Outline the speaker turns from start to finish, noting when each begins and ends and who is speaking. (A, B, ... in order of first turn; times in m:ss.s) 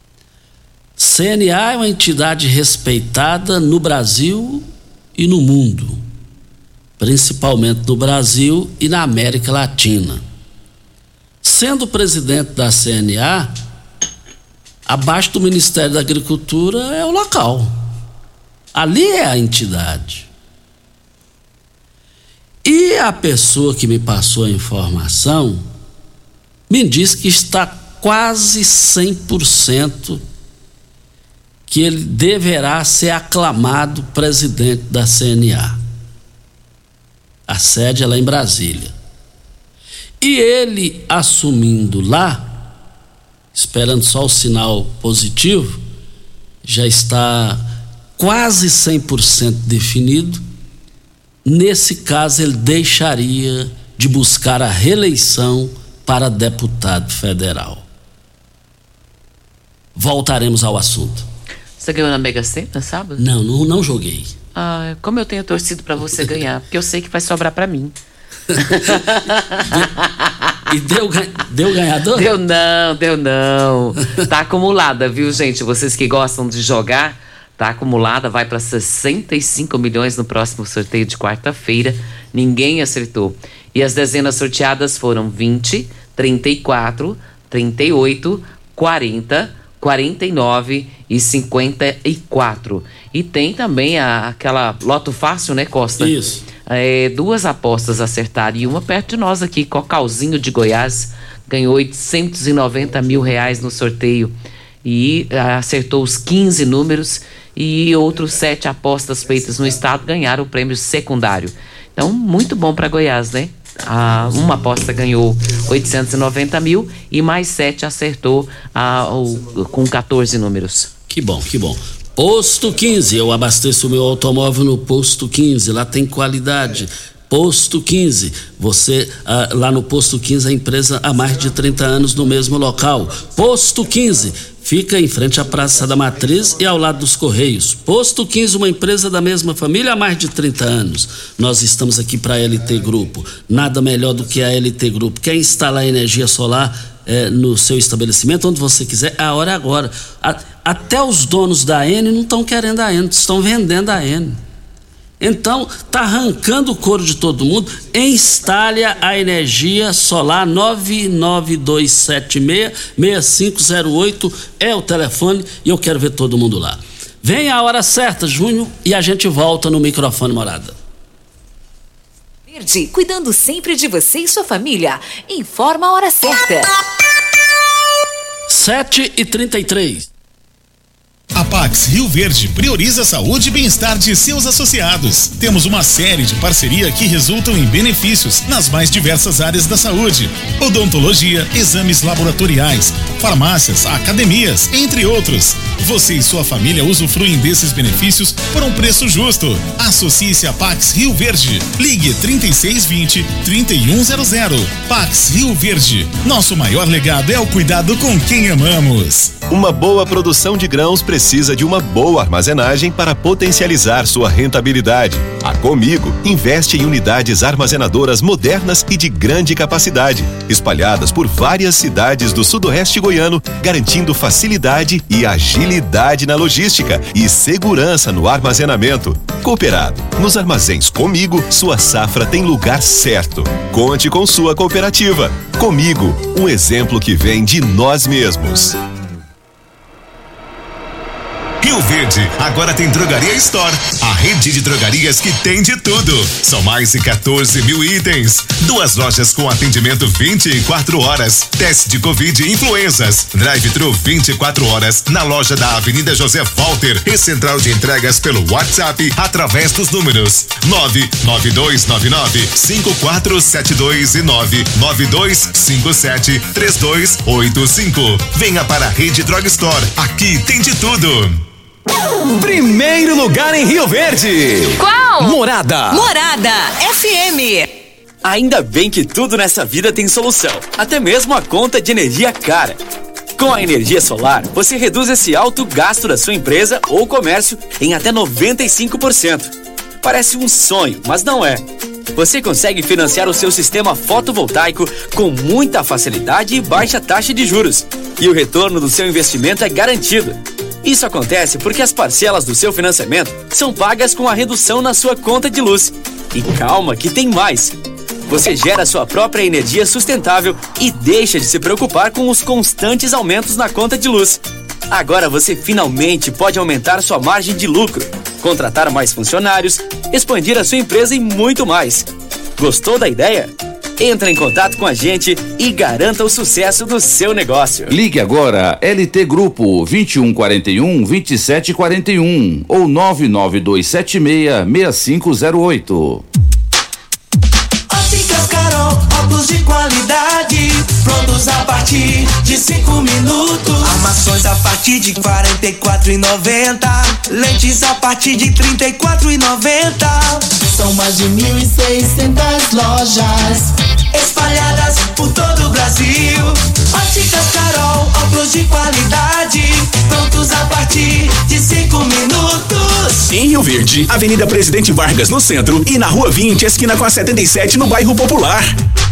0:01.0-0:04.7 A
0:05.2-0:06.0 A
0:07.0-0:10.2 A
0:11.4-0:13.5 A
0:14.9-0:17.7 A
0:18.7-0:20.3 A
0:22.6-0:25.7 A
0:26.7-0:30.2 A
0:31.7-0:35.8 A
0:37.5-0:38.9 A
0:40.2-0:42.6 A
0:43.5-0:45.8 A
0:46.6-0:47.6 A
0:48.2-0:50.4 A
0:51.4-0:57.8 A
1:00.0-1:01.2 A
1:01.8-1:03.2 B
1:03.2-1:04.3 A
1:04.6-1:08.0 B
1:08.6-1:10.3 B
1:10.7-1:12.3 A
1:12.1-1:36.2 B
1:36.0-1:36.4 A
1:36.7-2:00.9 B
2:01.1-2:34.4 A
2:35.2-2:50.8 A
2:52.5-2:56.7 C
2:58.5-3:00.1 A
3:01.4-3:29.6 D
3:29.5-3:58.7 E
4:01.6-4:31.4 F
4:32.3-4:36.0 G
4:34.8-4:35.4 C
4:35.9-4:37.7 C
4:38.2-4:42.8 G
4:43.4-4:49.5 G
4:50.0-4:51.6 G
4:52.2-5:07.7 G
5:08.3-5:22.1 G
5:22.6-5:27.9 G
5:27.9-5:36.2 H
5:37.9-6:03.2 I
6:03.3-6:08.7 J